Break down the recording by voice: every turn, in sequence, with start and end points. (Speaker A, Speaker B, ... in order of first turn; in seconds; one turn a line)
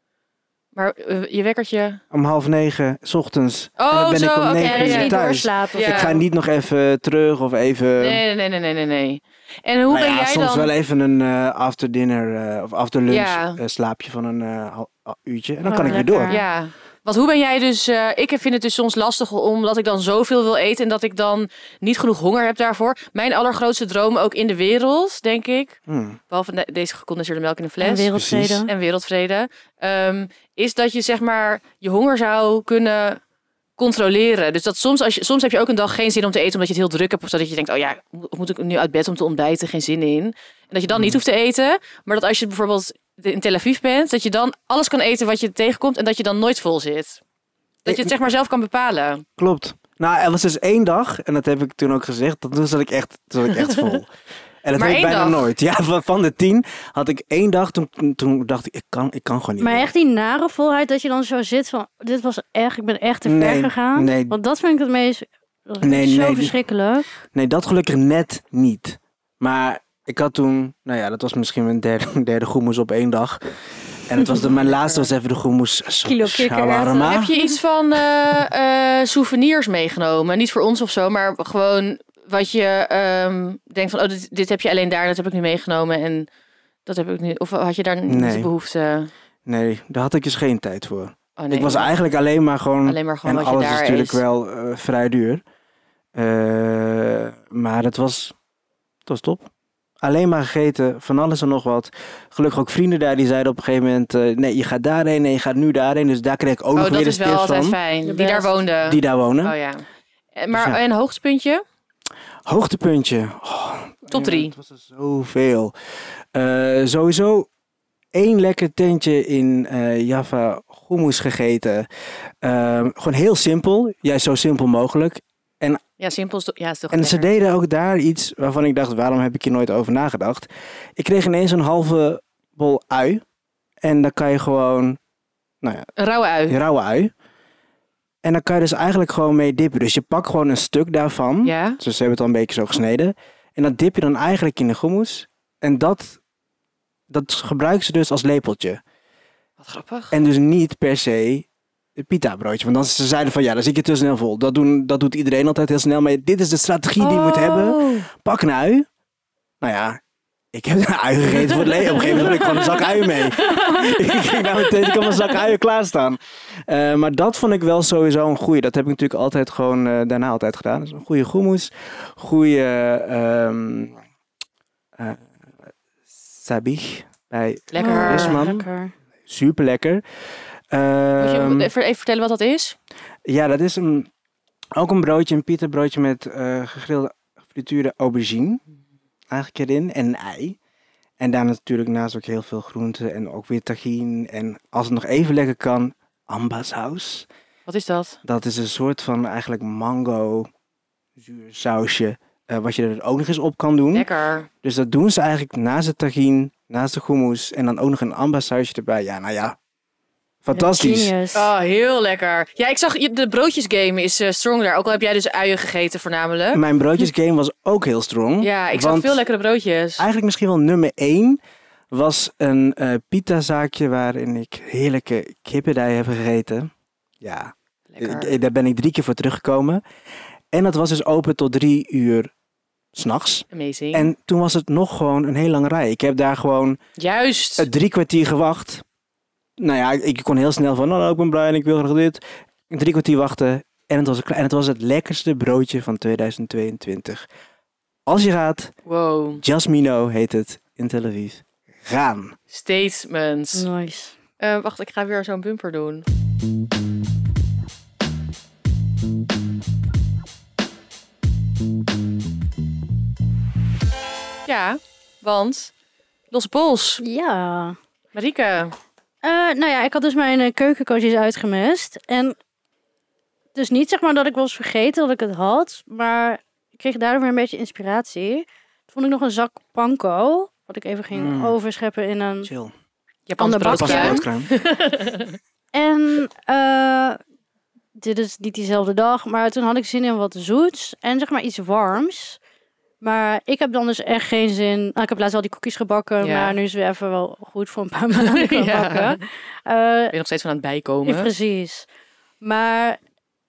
Speaker A: 0.7-2.0
Speaker B: 2.1-8.2
Speaker A: 3.8-5.2
Speaker C: 4.6-6.2
Speaker A: 5.7-6.1
Speaker A: 8.0-10.7
Speaker B: 9.9-16.3
Speaker A: 13.1-13.6
Speaker C: 15.6-16.4
Speaker A: 15.8-25.8
Speaker B: 25.9-26.2
Speaker A: 26.3-28.1
Speaker C: 27.8-28.7
Speaker B: 28.1-28.6
Speaker A: 28.6-33.2
Speaker A: 33.8-47.2
Speaker B: 40.9-41.2
Speaker A: 47.8-49.2
Speaker B: 47.9-48.1
Speaker B: 49.4-54.1
Speaker B: 54.6-59.9
Speaker A: 54.8-55.5
Speaker C: 59.6-67.2
Speaker B: 63.2-64.3
Speaker B: 65.8-66.5
Speaker B: 67.3-73.4
Speaker B: 74.0-77.3
Speaker A: 74.3-75.1
Speaker C: 76.0-77.6
Speaker A: 77.0-86.3
Speaker A: 86.8-89.1
Speaker B: 88.1-88.5
Speaker B: 89.5-95.4
Speaker A: 91.4-91.9
Speaker A: 92.8-94.2
Speaker B: 96.1-98.3
Speaker B: 99.0-99.5
Speaker B: 100.0-107.8
Speaker A: 106.8-109.8
Speaker C: 108.0-108.5
Speaker B: 108.8-109.5
Speaker A: 110.3-111.6
Speaker B: 110.5-110.8
Speaker B: 112.5-115.7
Speaker A: 114.1-114.5
Speaker B: 116.3-117.5
Speaker B: 118.1-121.9
Speaker B: 122.4-125.8
Speaker A: 126.0-127.2
Speaker B: 126.9-133.2
Speaker B: 133.8-135.0
Speaker B: 135.6-135.9
Speaker A: 136.0-136.6
Speaker B: 136.5-137.1
Speaker B: 138.2-146.2
Speaker A: 141.4-141.8
Speaker B: 147.1-148.8
Speaker A: 149.6-150.1
Speaker B: 150.1-158.9
Speaker C: 157.0-158.0
Speaker B: 159.6-160.0
Speaker B: 160.5-174.0
Speaker C: 161.9-163.9
Speaker A: 163.5-163.9
Speaker B: 175.0-175.3
Speaker B: 176.1-178.7
Speaker A: 177.7-178.4
Speaker C: 177.8-178.9
Speaker B: 179.3-180.0
Speaker B: 180.7-181.7
Speaker A: 181.2-182.8
Speaker B: 183.2-184.1
Speaker B: 184.8-188.6
Speaker B: 189.3-190.6
Speaker B: 191.2-197.3
Speaker A: 197.7-198.2
Speaker B: 198.2-200.5
Speaker B: 201.2-204.1
Speaker A: 203.9-204.5
Speaker B: 204.6-209.6
Speaker B: 210.4-211.1
Speaker C: 210.5-211.5
Speaker A: 211.3-216.6
Speaker B: 216.5-219.2
Speaker A: 218.4-220.0
Speaker B: 220.0-221.4
Speaker B: 221.9-229.8
Speaker A: 227.9-228.3
Speaker B: 230.5-232.3
Speaker B: 232.9-236.8
Speaker A: 233.5-234.1
Speaker A: 237.0-237.7
Speaker B: 237.6-238.8
Speaker B: 239.6-247.2
Speaker B: 248.1-248.7
Speaker A: 248.8-249.4
Speaker B: 249.4-252.4
Speaker A: 252.5-253.7
Speaker C: 253.5-254.2
Speaker A: 254.4-256.0
Speaker A: 264.5-265.7
Speaker A: 266.3-267.0
Speaker C: 267.0-267.8
Speaker A: 268.1-268.8
Speaker C: 269.2-272.4
Speaker C: 273.5-282.5
Speaker B: 281.1-281.6
Speaker B: 282.4-282.7
Speaker A: 283.3-285.4
Speaker C: 283.4-284.2
Speaker B: 283.7-284.5
Speaker C: 285.7-287.2
Speaker C: 287.9-292.4
Speaker C: 293.0-300.1
Speaker A: 296.2-296.6
Speaker A: 298.1-299.2
Speaker A: 300.1-301.3
Speaker C: 301.0-301.9
Speaker C: 302.4-303.0